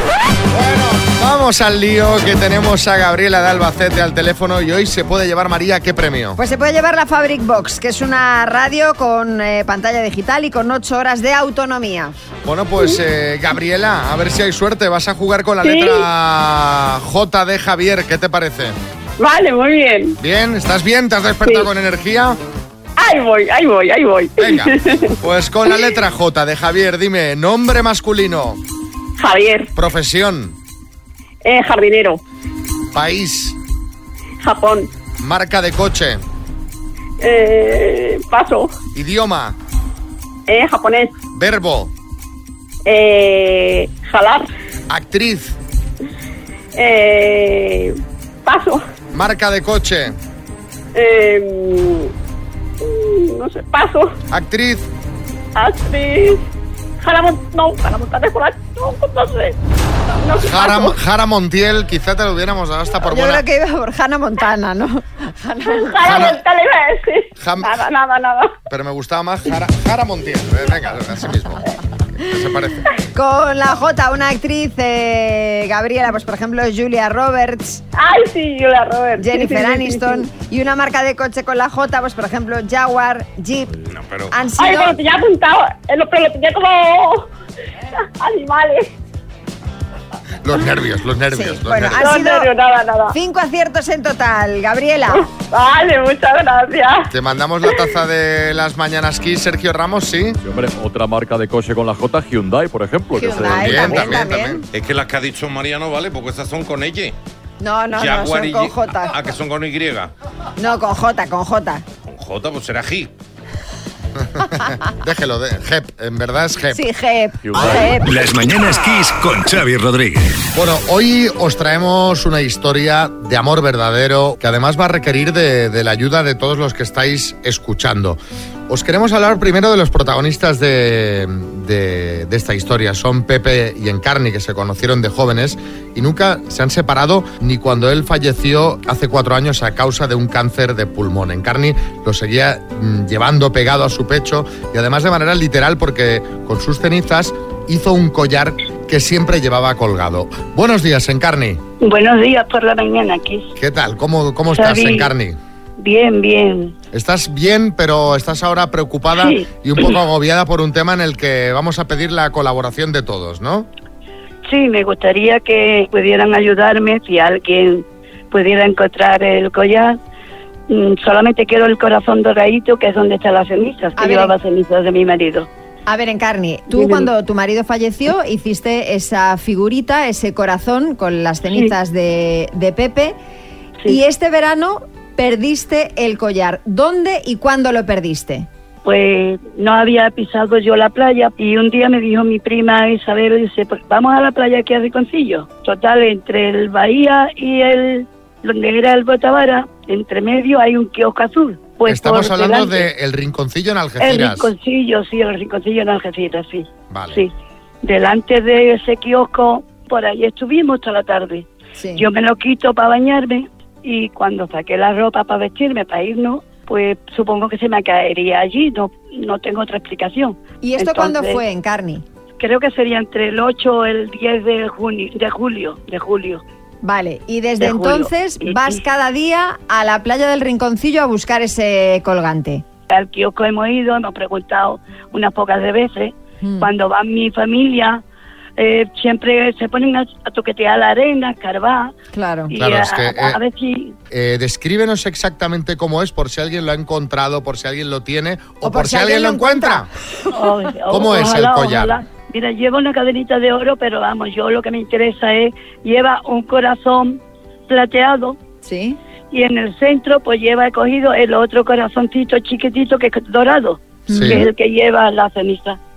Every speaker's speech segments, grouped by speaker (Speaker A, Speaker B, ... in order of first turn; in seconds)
Speaker A: 0.5-6.4, 12.4-18.8, 20.2-22.4, 24.4-28.6, 29.7-30.6, 32.9-33.5, 35.2-36.2, 38.9-39.6, 41.3-41.9, 44.9-45.5, 49.1-50.1, 54.3-54.9, 60.4-63.4, 66.0-66.4, 67.4-67.8, 68.7-71.6, 72.1-72.9, 90.4-92.0, 97.1-100.4, 103.4-104.6, 114.3-116.8, 120.5-128.2, 128.7-151.6, 153.6-155.4, 156.9-163.7, 201.9-204.5, 206.9-207.2, 242.6-243.4, 244.1-249.9, 250.9-251.9, 264.1-264.4
Speaker B: 6.4-12.1, 63.0-66.2, 73.1-77.8, 79.2-83.7, 84.3-85.0, 91.3-92.5, 93.1-95.3, 103.1-104.7, 107.6-109.1, 110.6-111.8, 116.7-118.1, 174.0-174.3, 175.9-183.2, 183.8-188.5, 211.8-212.1, 220.6-222.0, 226.8-232.6, 236.4-236.7, 242.1-242.5, 248.6-249.9, 258.6-259.0, 264.1-264.5
Speaker C: 15.6-16.1, 19.2-20.1, 23.0-25.0, 29.2-29.7, 31.4-32.2, 34.4-34.9, 37.2-38.7, 40.5-41.1, 42.9-44.5, 46.8-47.9, 48.5-48.8, 50.9-52.1, 52.8-54.1, 55.5-56.4, 57.0-59.6, 60.2-60.9, 65.7-68.5, 78.0-80.2, 84.6-87.3, 88.2-88.9, 92.0-93.1, 95.1-97.1
Speaker D: 83.8-84.4, 104.7-107.1, 107.9-110.1, 112.0-113.1
Speaker E: 100.4-104.2
Speaker F: 118.1-120.2
Speaker G: 151.8-153.5, 154.5-155.1, 155.8-156.7, 159.1-159.9, 164.4-170.0, 170.7-175.5, 176.7-177.1, 188.8-202.9, 204.0-207.3, 207.8-221.4, 222.4-226.4, 227.6-228.8, 232.9-238.0, 238.6-241.9, 242.5-243.9, 250.3-258.4, 259.3-265.8